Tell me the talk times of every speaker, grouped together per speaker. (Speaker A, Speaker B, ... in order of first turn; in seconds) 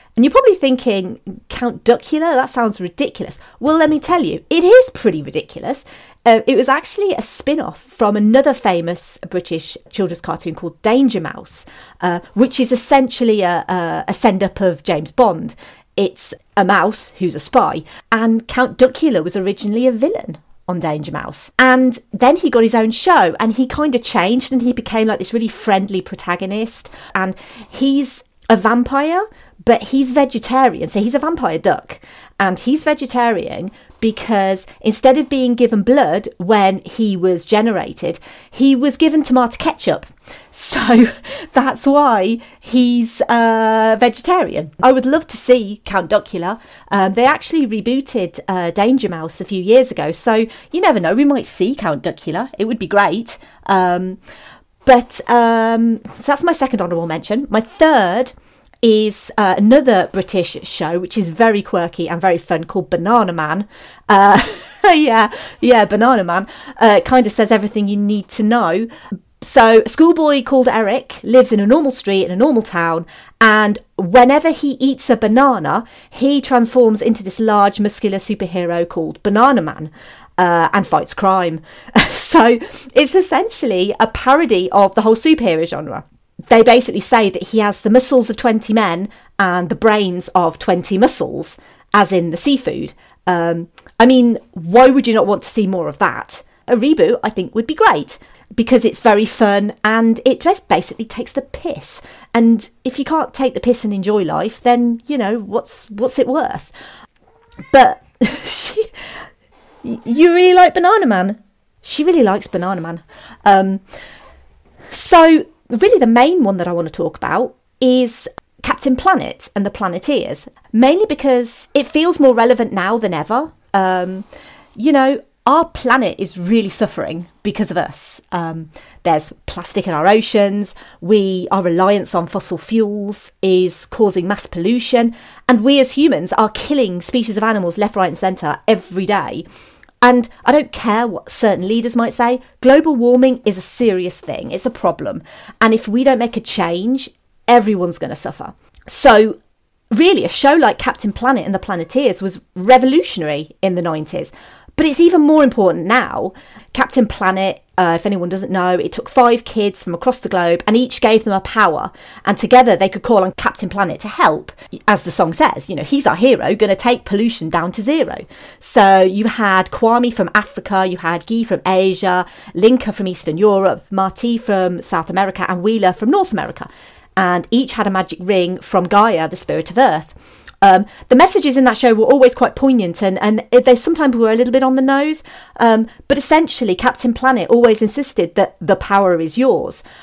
Speaker A: 0.2-54.2, 54.8-68.9, 69.4-106.7, 107.7-108.9, 109.8-113.8, 114.9-124.2, 124.8-139.4, 140.0-149.4, 149.9-189.8